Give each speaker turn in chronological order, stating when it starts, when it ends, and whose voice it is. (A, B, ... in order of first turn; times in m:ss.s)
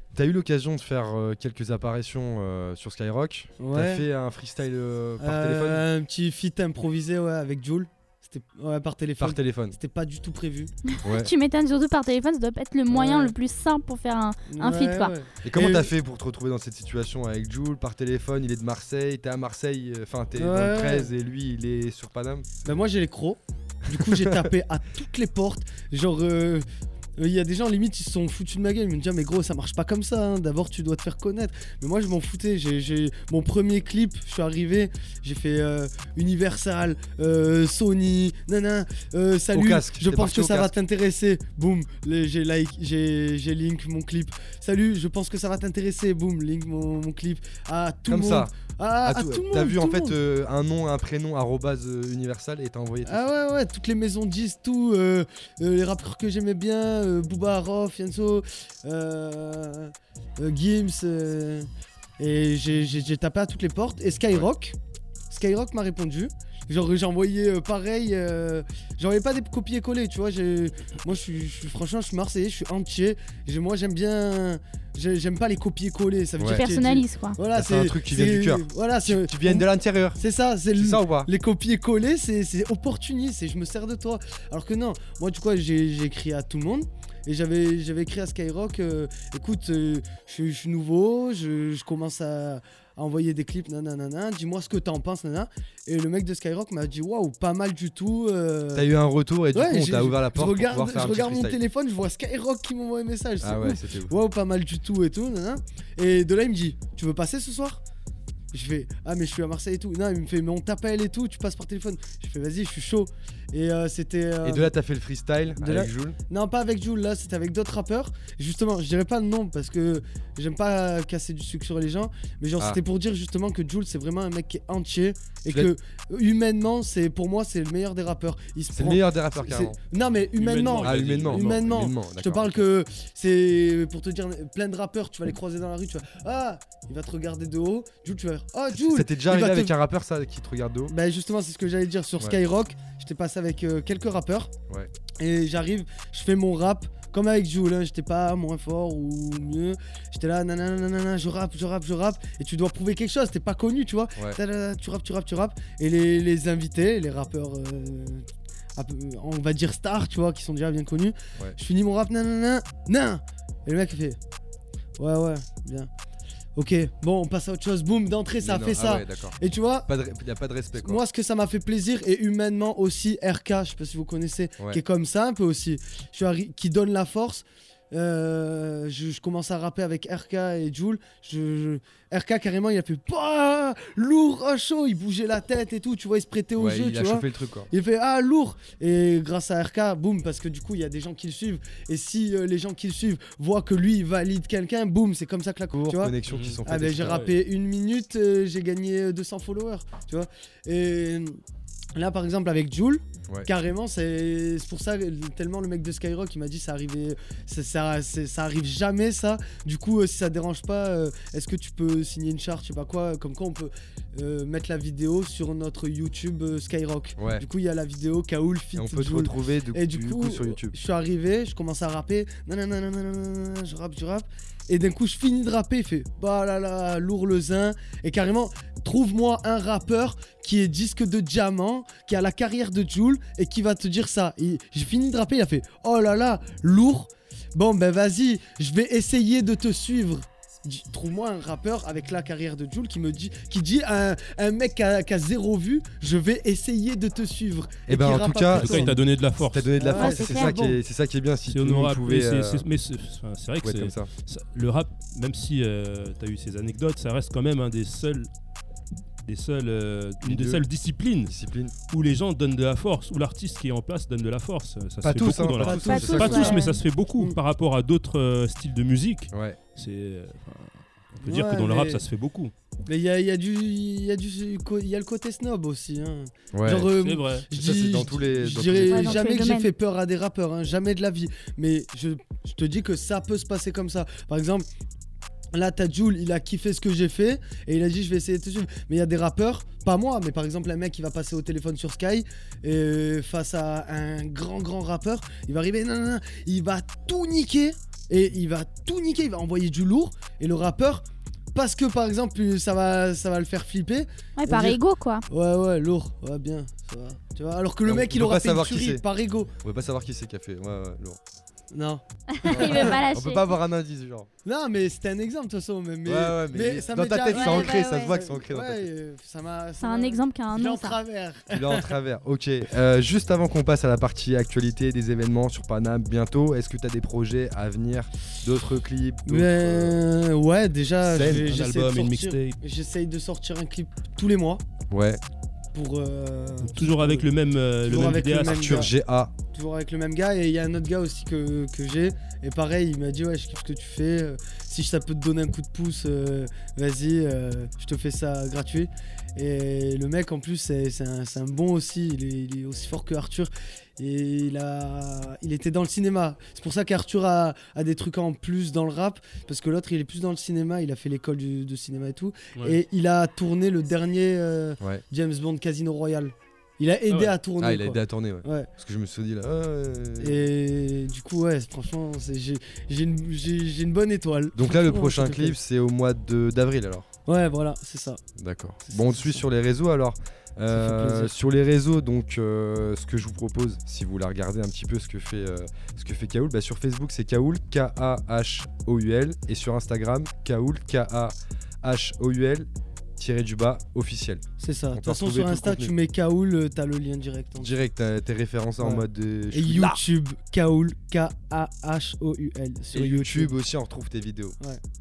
0:00.1-0:05.8 A
0:03.6-0:04.0 B
0:05.2-0:10.7 B
0:09.2-0:09.8 A
0:11.0-0:15.1 C
0:11.0-0:11.3 A
0:12.9-0:13.3 B
0:14.5-0:15.9 B
0:15.4-0:22.6 A
0:20.4-0:21.1 B
0:22.6-0:26.6 B
0:23.9-0:24.4 A
0:27.2-0:50.2 B
0:39.5-0:40.7 A
0:48.1-0:48.5 A
0:49.0-0:53.3 A
0:53.0-1:01.7 B
1:02.2-1:04.8 B
1:05.3-1:19.6 B
1:16.4-1:16.6 A
1:16.4-1:17.4 C
1:17.5-1:20.2 A
1:20.2-1:38.9 B
1:20.7-1:21.3 A
1:38.7-1:41.6 A
1:39.5-1:47.8 B
1:43.4-1:44.1 A
1:48.5-1:54.7 B
1:54.4-1:56.2 A
1:55.6-2:19.7 B
2:08.7-2:09.8 A
2:10.4-2:11.6 D
2:10.8-2:12.6 A
2:18.7-2:20.9 A
2:20.9-2:24.5 B
2:25.2-2:44.2 B
2:45.0-2:45.9 B
2:46.6-2:49.9 B
2:48.4-2:51.0 A
2:50.8-3:21.4 B
3:06.6-3:07.7 A
3:15.7-3:17.3 A
3:16.3-3:17.3 D
3:21.9-4:09.0 B
3:37.2-3:37.4 A
3:38.7-3:40.8 A
4:07.9-4:12.6 A
4:08.5-4:09.7 D
4:09.7-4:10.5 B
4:09.9-4:10.8 C
4:11.5-4:18.3 D
4:13.6-4:14.1 A
4:19.2-4:21.3 D
4:20.2-4:20.6 A
4:21.2-4:21.7 A
4:21.9-4:32.5 D
4:25.0-4:26.6 A
4:25.6-4:26.6 B
4:25.8-4:26.8 C
4:29.3-4:29.6 A
4:31.2-4:32.0 B
4:32.8-4:44.6 B
4:36.5-4:36.9 A
4:36.8-4:37.4 D
4:37.5-4:39.3 A
4:38.8-4:39.7 C
4:45.5-5:09.5 B
5:04.4-5:05.2 C
5:07.8-5:09.0 A
5:09.6-5:11.2 A
5:11.7-5:13.0 B
5:12.4-5:13.5 C
5:12.5-5:14.3 A
5:14.4-5:21.9 B
5:16.0-5:18.9 A
5:17.3-5:18.2 C
5:19.8-5:21.0 C
5:21.5-5:30.0 A
5:29.2-5:34.6 B
5:31.0-5:31.5 A
5:31.2-5:32.6 D
5:34.9-5:35.2 A
5:35.7-5:37.3 B
5:36.6-5:38.8 D
5:37.8-5:38.9 B
5:37.9-5:39.3 A
5:39.5-6:08.7 B
6:07.6-6:10.4 A
6:10.2-6:15.6 B
6:14.5-6:17.1 A
6:17.2-6:18.2 B
6:18.4-6:35.9 A
6:18.8-6:19.4 B
6:20.7-6:21.3 B
6:34.6-6:37.7 B
6:37.6-6:40.0 A
6:38.8-6:43.5 B
6:42.9-6:44.6 A